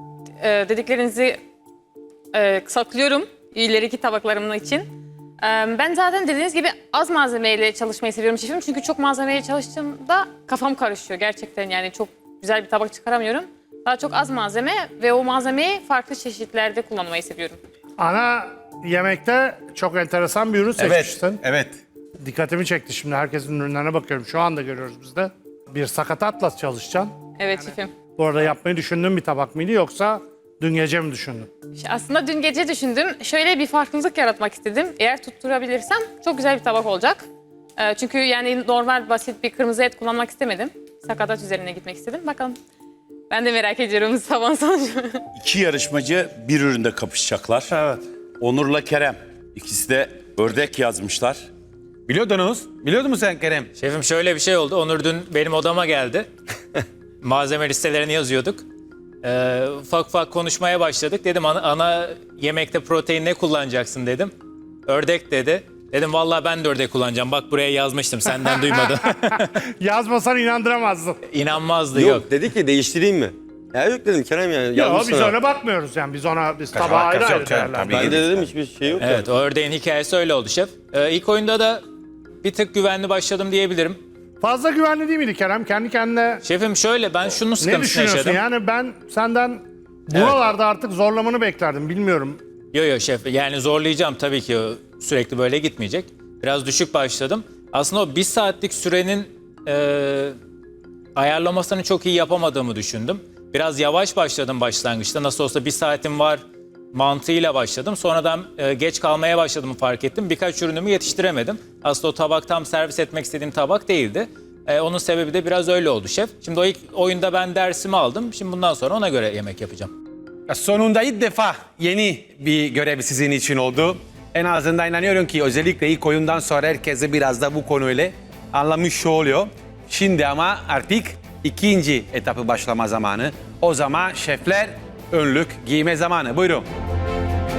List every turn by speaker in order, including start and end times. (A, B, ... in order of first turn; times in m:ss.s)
0:00.4-0:01.4 A
0:02.3-0:17.6 A
0:18.0-0:21.4 B
0:20.8-0:21.8 C
0:22.2-0:27.1 B
0:27.4-0:27.9 A
0:28.2-0:31.5 B
0:31.8-0:37.3 A
0:37.8-0:42.6 A
0:43.3-0:45.2 A
0:45.4-0:47.7 D
0:47.7-0:48.0 B
0:48.4-0:51.5 D
0:52.1-0:53.7 C
0:53.8-0:56.3 E
0:57.2-0:58.6 E
0:59.2-1:04.3 E
1:04.9-1:09.5 E
1:08.7-1:09.0 B
1:09.7-1:11.2 B
1:11.3-1:12.3 E
1:11.9-1:15.3 F
1:14.7-1:18.1 B
1:16.8-1:18.2 C
1:17.8-1:19.2 F
1:19.0-1:21.8 E
1:22.4-1:24.0 E
1:24.4-1:26.4 B
1:26.4-1:28.4 E
1:27.6-1:32.4 B
1:30.1-1:30.4 E
1:32.7-1:40.4 E
1:41.2-1:46.4 E
1:46.9-1:59.9 E
2:00.5-2:16.7 C